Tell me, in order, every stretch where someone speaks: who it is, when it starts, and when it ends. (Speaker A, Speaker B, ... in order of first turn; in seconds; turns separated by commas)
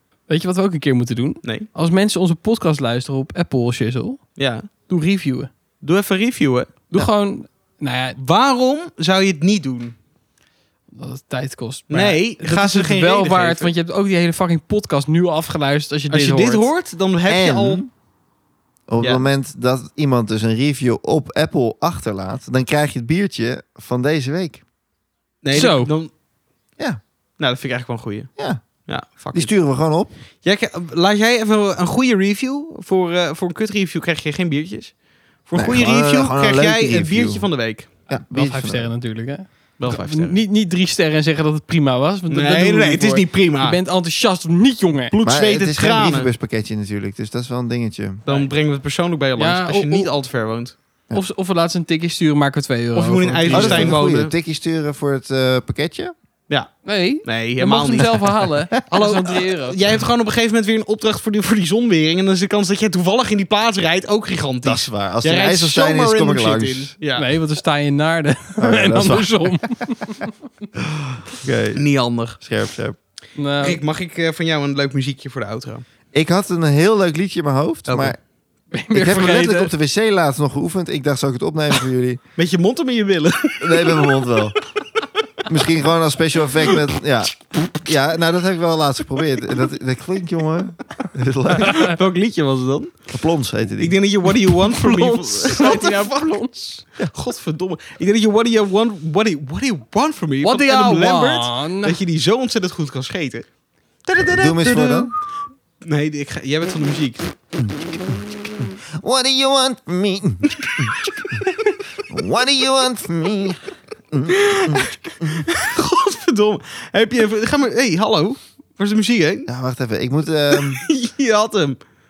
Speaker A: 0.3-5.5, Speaker B: 1.4-1.7, Speaker B: 4.4-4.7, Speaker B: 5.8-7.1, Speaker A: 6.9-8.2, Speaker B: 8.2-9.9, Speaker A: 10.9-16.7, Speaker B: 11.9-13.7, Speaker B: 16.1-17.9, Speaker C: 17.3-17.9, Speaker C: 18.9-24.6, Speaker B: 25.4-26.1, Speaker A: 25.5-25.9, Speaker B: 27.4-28.3, Speaker B: 28.9-29.6, Speaker C: 29.3-30.1, Speaker B: 30.4-37.9, Speaker C: 35.5-37.5, Speaker C: 38.1-38.9, Speaker A: 38.3-45.1, Speaker B: 39.8-40.4, Speaker B: 42.3-43.8, Speaker B: 45.1-46.3, Speaker C: 45.2-48.3, Speaker B: 48.2-50.7, Speaker A: 49.4-50.1, Speaker A: 51.1-54.0, Speaker B: 52.9-54.3, Speaker C: 53.5-56.1, Speaker B: 56.5-67.3, Speaker A: 56.8-59.8, Speaker C: 64.6-66.9, Speaker A: 67.2-70.3, Speaker C: 68.6-69.7, Speaker C: 71.3-71.8, Speaker B: 71.7-72.4, Speaker C: 72.3-73.0, Speaker A: 73.3-73.8, Speaker B: 73.6-75.8, Speaker C: 76.1-78.2, Speaker B: 77.8-78.2, Speaker A: 78.7-79.7, Speaker C: 78.9-82.2, Speaker B: 82.4-84.3, Speaker C: 83.6-84.6, Speaker C: 85.5-91.9, Speaker B: 86.6-86.9, Speaker B: 91.6-92.9, Speaker A: 91.7-91.9, Speaker C: 93.1-94.0, Speaker B: 93.8-103.5, Speaker A: 94.7-96.7, Speaker A: 100.4-102.0, Speaker B: 104.0-105.2, Speaker C: 104.3-105.1, Speaker B: 105.8-107.3, Speaker C: 107.6-108.2, Speaker C: 109.0-111.4, Speaker B: 110.6-111.1, Speaker C: 112.1-115.5, Speaker B: 114.3-119.5, Speaker C: 119.5-120.8, Speaker B: 120.5-121.8